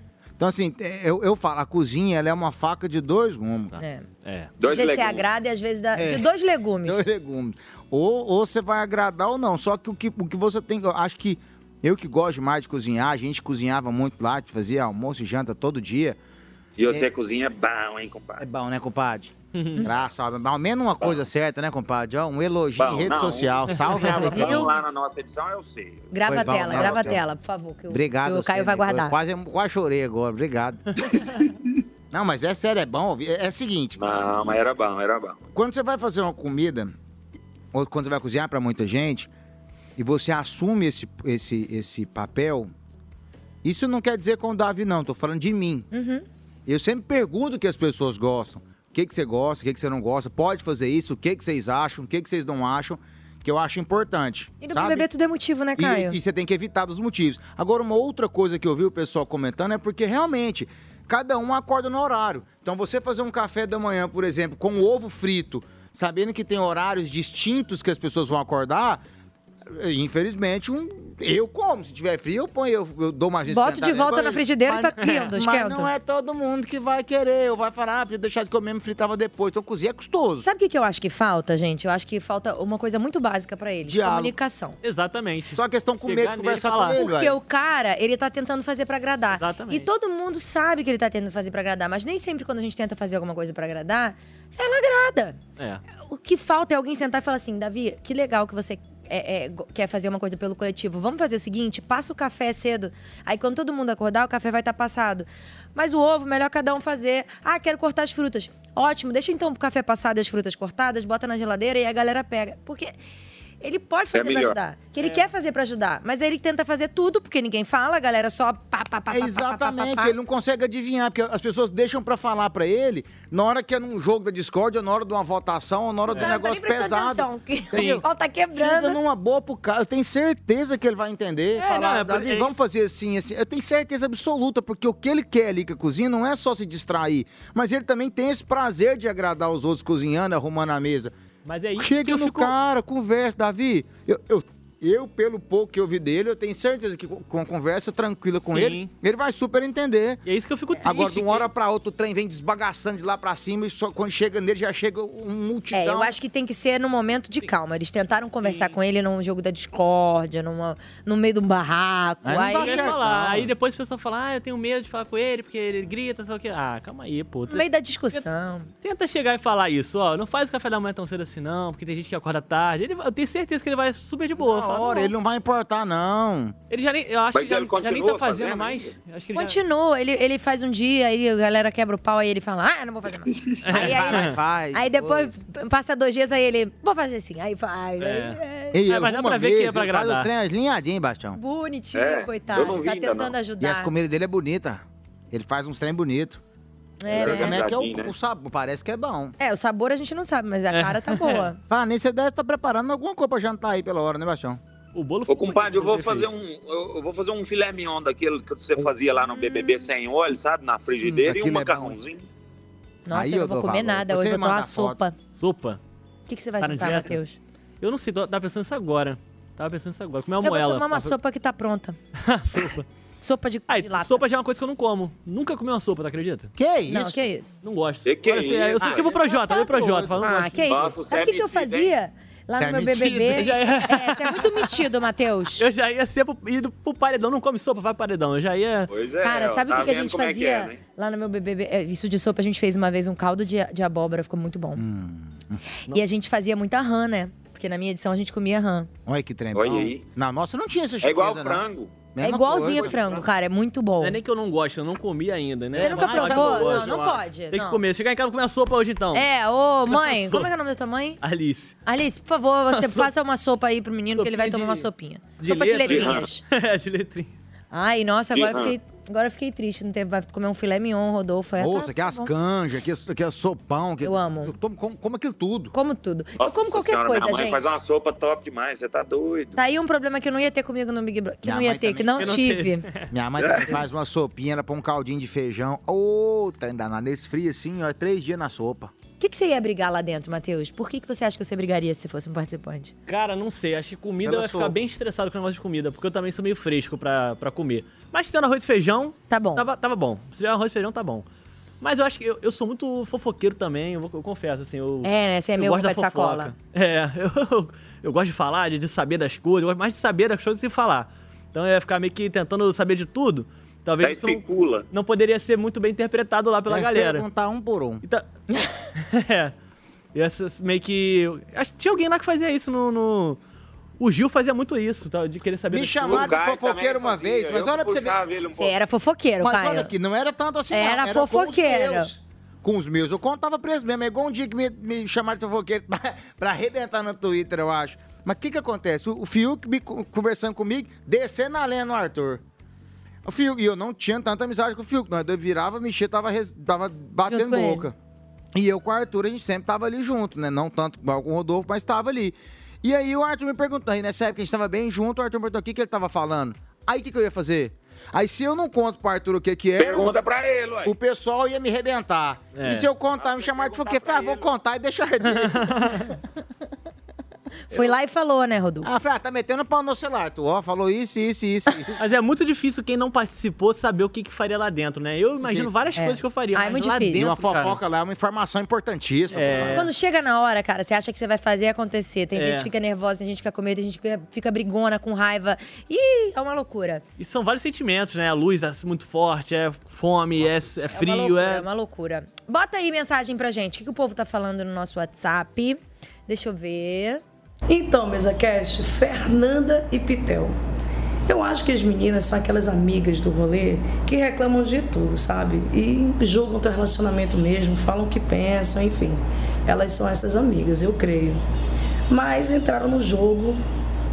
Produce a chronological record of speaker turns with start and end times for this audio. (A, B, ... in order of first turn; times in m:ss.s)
0:00.4-0:03.8 A
0:03.8-0:04.0 B
0:04.2-0:04.5 C
0:04.6-0:05.2 D
0:04.6-0:07.0 B
0:05.9-0:06.3 A
0:06.8-0:16.2 A
0:16.8-0:18.4 D
0:18.4-0:24.7 A
0:19.5-0:19.8 C
0:22.8-0:27.1 D
0:23.7-0:24.4 C
0:24.2-0:24.7 B
0:26.1-0:29.1 B
0:26.2-0:27.2 A
0:27.9-0:30.8 A
0:32.1-0:34.0 A
0:34.0-0:35.4 D
0:35.5-0:36.9 A
0:37.7-0:39.3 A
0:40.0-0:42.7 A
0:43.6-0:45.9 A
0:45.9-0:46.2 B
0:46.6-0:55.1 A
0:54.6-0:56.2 B
0:55.8-1:09.0 A
1:09.7-1:20.5 A
1:13.5-1:15.9 B
1:15.0-1:15.3 C
1:20.4-1:24.8 B
1:23.8-1:24.4 A
1:24.8-1:27.0 C
1:25.5-1:27.4 A
1:26.9-1:35.4 B
1:29.3-1:29.9 C
1:36.0-1:52.9 B
1:53.6-2:00.1 B
1:54.1-1:54.6 D
1:55.0-1:55.2 C
1:59.1-2:08.0 A
2:06.1-2:06.4 C
2:06.2-2:09.0 B
2:07.7-2:08.0 C
2:08.6-2:21.1 A
2:11.6-2:12.6 C
2:21.4-2:22.5 C
2:21.8-2:30.2 A
2:28.4-2:28.9 C
2:30.2-2:31.5 C
2:30.8-2:36.1 A
2:35.7-2:42.9 B
2:38.3-2:38.8 C
2:42.2-2:43.5 A
2:42.5-2:48.2 C
2:47.5-2:48.7 B
2:48.8-2:55.1 C
2:54.4-2:56.6 A
2:56.7-2:59.6 C
2:57.3-2:58.9 D
2:59.3-3:08.8 B
3:03.3-3:03.6 D
3:03.6-3:04.4 C
3:03.7-3:05.3 A
3:08.0-3:10.3 C
3:08.7-3:11.4 A
3:11.3-3:13.9 B
3:11.9-3:13.4 D
3:13.6-3:16.4 A
3:17.0-3:17.6 B
3:17.1-3:18.1 D
3:17.1-3:19.3 A
3:19.4-3:21.6 B
3:20.7-3:21.5 C
3:21.7-3:24.6 A
3:24.9-3:26.3 C
3:25.3-3:32.2 D
3:29.3-3:29.8 B
3:30.9-3:32.0 A
3:33.0-3:35.2 B
3:33.1-3:35.0 A
3:35.3-3:35.8 C
3:36.3-3:37.4 B
3:36.6-3:37.1 C
3:37.8-3:41.1 C
3:40.4-3:42.0 B
3:42.2-3:42.9 C
3:43.2-3:44.2 B
3:43.7-3:46.5 C
3:46.6-3:47.2 A
3:46.9-3:47.5 B
3:47.6-3:50.6 C
3:48.0-3:49.1 D
3:48.8-3:50.5 A
3:48.8-3:55.6 B
3:50.6-3:51.9 D
3:52.6-3:53.5 A
3:53.4-3:54.8 C
3:55.6-3:58.9 C
3:58.9-4:00.8 D
3:59.2-4:04.8 B
4:04.7-4:05.6 A
4:05.9-4:08.9 B
4:09.0-4:13.0 A
4:09.5-4:10.1 D
4:11.0-4:13.2 D
4:12.2-4:14.2 B
4:14.0-4:19.3 C
4:15.7-4:17.0 A
4:15.8-4:17.8 B
4:19.1-4:21.2 B
4:19.9-4:20.5 C
4:21.2-4:21.8 C
4:21.8-4:26.4 B
4:22.7-4:23.1 C
4:24.1-4:24.9 C
4:25.4-4:27.3 C
4:25.9-4:26.3 D
4:27.7-4:32.3 B
4:28.3-4:28.8 D
4:31.6-4:35.7 A
4:34.0-4:34.5 B
4:35.7-4:37.6 B
4:36.4-4:39.6 D
4:39.6-4:42.8 B
4:41.4-4:42.3 A
4:42.2-4:43.1 C
4:43.1-4:48.9 A
4:43.4-4:43.8 D
4:49.2-4:52.9 B
4:53.1-5:01.2 C
4:54.2-4:54.8 A
4:59.3-4:59.6 B
5:01.8-5:17.2 C
5:05.0-5:06.5 B
5:14.0-5:14.9 D
5:16.7-5:18.0 A
5:19.0-5:19.5 C
5:20.1-5:23.4 C
5:24.0-5:26.3 C
5:25.7-5:28.2 A
5:26.1-5:28.7 D
5:28.5-5:29.9 B
5:29.4-5:42.4 A
5:30.7-5:32.1 B
5:43.2-5:47.9 A
5:47.3-5:47.9 B
5:48.5-6:00.2 A
5:59.8-6:01.0 D
6:00.8-6:06.0 A
6:02.5-6:02.9 C
6:03.2-6:04.5 D
6:05.5-6:06.1 C
6:07.7-6:08.9 B
6:08.8-6:12.0 A
6:12.0-6:17.8 C
6:15.4-6:15.7 A
6:16.0-6:17.3 B
6:17.1-6:19.8 A
6:19.3-6:19.9 C
6:19.7-6:27.0 B
6:22.3-6:22.7 C
6:27.2-6:31.6 C
6:30.9-6:37.2 B
6:37.7-6:40.5 E
6:41.3-6:51.4 E
6:52.1-6:53.6 E